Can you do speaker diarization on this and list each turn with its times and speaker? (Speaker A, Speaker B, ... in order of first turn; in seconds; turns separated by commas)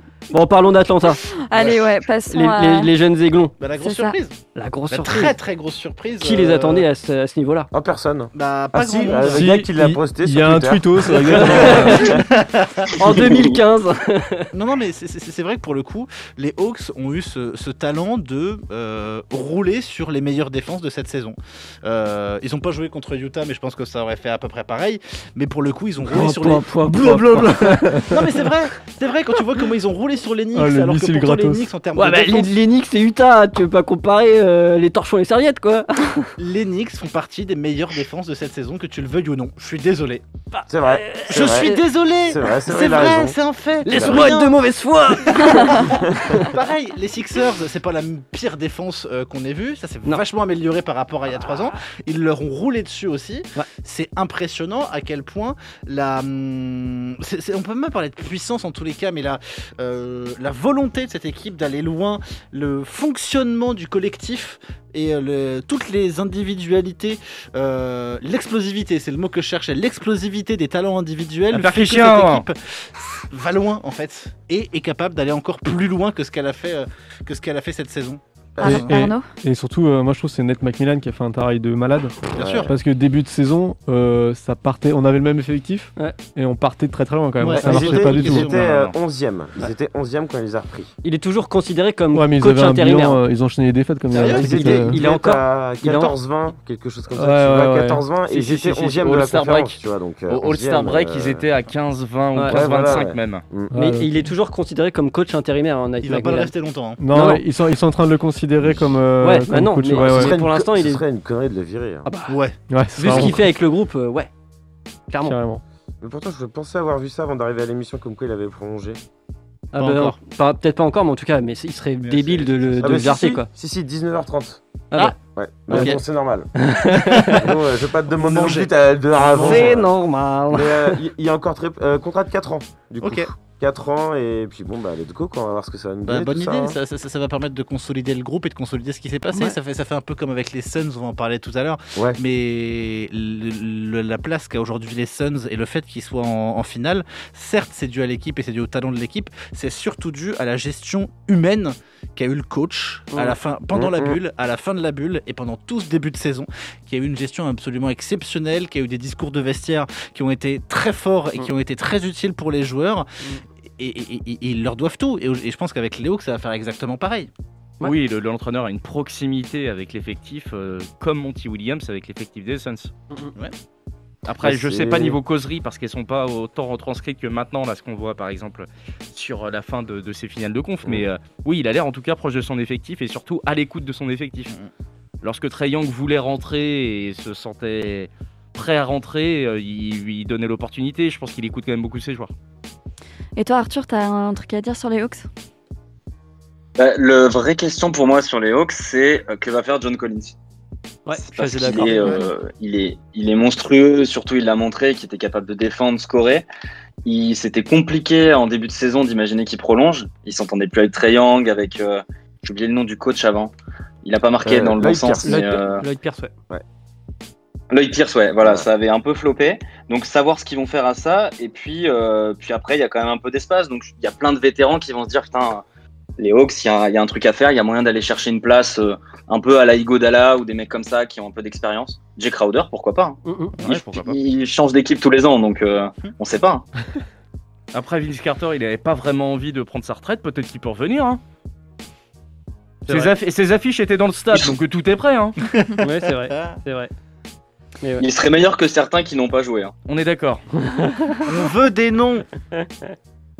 Speaker A: 0.3-1.2, Speaker B: 1.5-2.9, Speaker C: 1.6-1.8, Speaker A: 2.3-3.5, Speaker C: 3.6-4.4, Speaker B: 3.8-4.2, Speaker A: 4.5-5.4, Speaker C: 4.9-6.9, Speaker A: 6.2-7.7, Speaker D: 7.7-12.2, Speaker C: 8.3-9.6, Speaker E: 9.2-12.1, Speaker A: 11.3-12.2, Speaker C: 12.1-13.4, Speaker A: 13.0-14.5, Speaker C: 14.5-26.8, Speaker A: 26.1-28.0, Speaker E: 26.2-28.4, Speaker C: 28.0-32.5, Speaker E: 30.5-31.7, Speaker A: 32.0-36.3, Speaker C: 36.4-40.2, Speaker A: 40.5-41.8, Speaker D: 40.7-41.7, Speaker C: 41.3-44.6, Speaker D: 42.2-44.3, Speaker A: 43.8-46.5, Speaker C: 45.3-78.9, Speaker F: 71.5-72.5, Speaker D: 78.6-78.8, Speaker B: 78.6-79.3, Speaker E: 78.6-88.5, Speaker C: 82.3-82.7, Speaker D: 82.4-82.7, Speaker C: 87.4-88.9, Speaker D: 87.5-90.9, Speaker A: 91.0-93.2, Speaker E: 92.1-95.0, Speaker C: 94.1-94.7, Speaker A: 94.1-96.1, Speaker D: 94.2-101.5, Speaker E: 97.2-98.0, Speaker F: 98.3-103.4, Speaker D: 102.5-103.7, Speaker E: 103.7-104.1, Speaker A: 103.7-106.5, Speaker C: 106.0-107.0, Speaker E: 107.0-110.3, Speaker A: 107.1-107.4, Speaker A: 109.2-111.0, Speaker D: 110.0-112.1, Speaker A: 112.1-112.4, Speaker C: 112.3-112.6, Speaker E: 112.7-113.5, Speaker A: 112.9-114.3, Speaker A: 115.1-115.4, Speaker E: 115.2-115.6, Speaker D: 116.0-119.0, Speaker A: 119.7-123.5, Speaker C: 119.8-120.1, Speaker C: 122.0-123.0, Speaker D: 122.8-124.6, Speaker D: 125.3-126.5, Speaker A: 125.7-126.0, Speaker C: 125.7-126.0, Speaker A: 126.6-127.5, Speaker D: 127.4-129.9, Speaker C: 128.2-129.8, Speaker A: 129.4-130.9, Speaker D: 130.5-136.8, Speaker C: 133.0-133.3, Speaker C: 136.1-163.1, Speaker D: 141.9-142.2, Speaker D: 153.7-154.2, Speaker C: 163.8-167.3, Speaker F: 167.8-172.9, Speaker F: 174.3-184.6, Speaker D: 174.4-175.2, Speaker F: 185.2-192.3, Speaker B: 193.4-195.3, Speaker G: 196.8-200.3, Speaker A: 201.1-202.2, Speaker G: 201.3-206.4, Speaker C: 201.8-202.2, Speaker G: 207.1-213.5, Speaker G: 214.0-215.8, Speaker D: 214.4-215.4, Speaker A: 215.2-216.3, Speaker G: 217.7-225.6, Speaker G: 226.2-236.6, Speaker A: 233.3-233.6, Speaker F: 233.6-234.2, Speaker F: 237.7-241.2, Speaker A: 242.9-243.1, Speaker F: 242.9-245.4, Speaker C: 245.4-246.6, Speaker A: 245.8-246.9, Speaker G: 248.0-249.7, Speaker F: 249.9-250.4, Speaker A: 250.8-251.2, Speaker C: 251.2-252.3